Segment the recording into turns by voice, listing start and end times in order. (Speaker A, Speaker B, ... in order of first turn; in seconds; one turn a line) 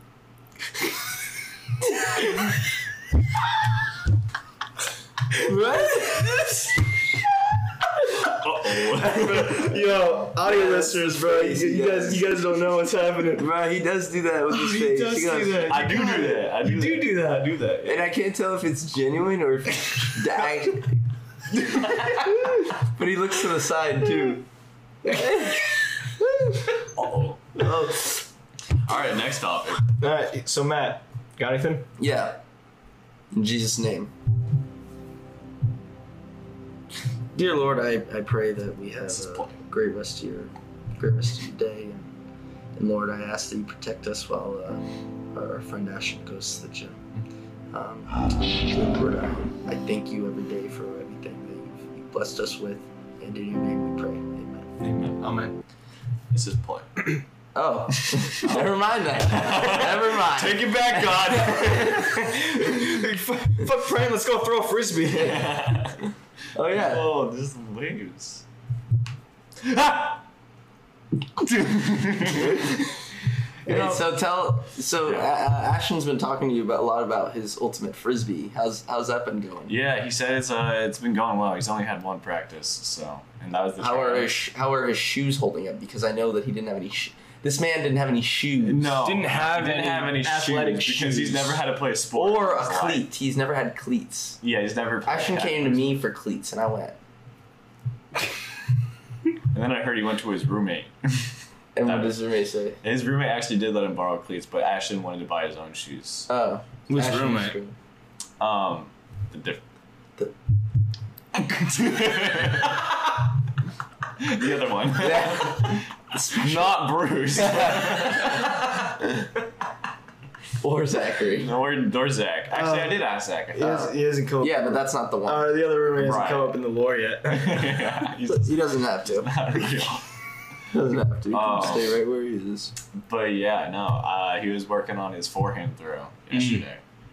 Speaker A: 5.4-6.5
Speaker B: 6.0-6.5
Speaker C: 8.3-9.7
Speaker B: 9.0-13.5
Speaker A: 10.4-12.4
Speaker A: 13.4-15.8
Speaker B: 14.5-17.5
Speaker C: 15.7-18.1
Speaker A: 17.8-21.1
Speaker A: 22.0-24.5
Speaker A: 25.0-26.7
Speaker C: 26.9-27.6
Speaker A: 27.6-28.3
Speaker C: 28.9-29.8
Speaker B: 30.0-31.9
Speaker A: 32.0-32.4
Speaker A: 33.3-34.1
Speaker A: 37.3-42.1
Speaker C: 39.1-39.6
Speaker A: 42.8-47.0
Speaker A: 47.7-54.7
Speaker B: 54.8-55.6
Speaker C: 56.3-56.9
Speaker A: 57.5-62.0
Speaker C: 58.0-62.2
Speaker B: 60.7-65.5
Speaker C: 65.2-66.1
Speaker A: 66.5-67.1
Speaker C: 66.6-68.5
Speaker C: 69.6-70.2
Speaker C: 71.4-72.7
Speaker A: 73.7-79.8
Speaker B: 73.7-74.0
Speaker C: 79.7-84.3
Speaker A: 83.8-88.8
Speaker C: 88.6-93.1
Speaker B: 89.0-91.6
Speaker A: 92.1-94.4
Speaker C: 94.4-96.0
Speaker A: 95.0-97.0
Speaker C: 99.5-102.2
Speaker A: 101.8-102.8
Speaker C: 102.8-106.3
Speaker A: 106.3-107.8
Speaker B: 106.9-107.6
Speaker C: 108.4-109.6
Speaker C: 111.4-113.1
Speaker C: 114.2-118.6
Speaker A: 115.0-116.8
Speaker A: 117.5-118.5
Speaker A: 120.6-121.5
Speaker C: 121.3-123.8
Speaker B: 122.5-127.8
Speaker A: 123.6-125.6
Speaker C: 126.0-126.6
Speaker C: 127.3-130.1
Speaker A: 128.2-129.7
Speaker A: 130.7-132.7
Speaker C: 131.3-132.0
Speaker C: 133.1-136.8
Speaker B: 136.3-136.7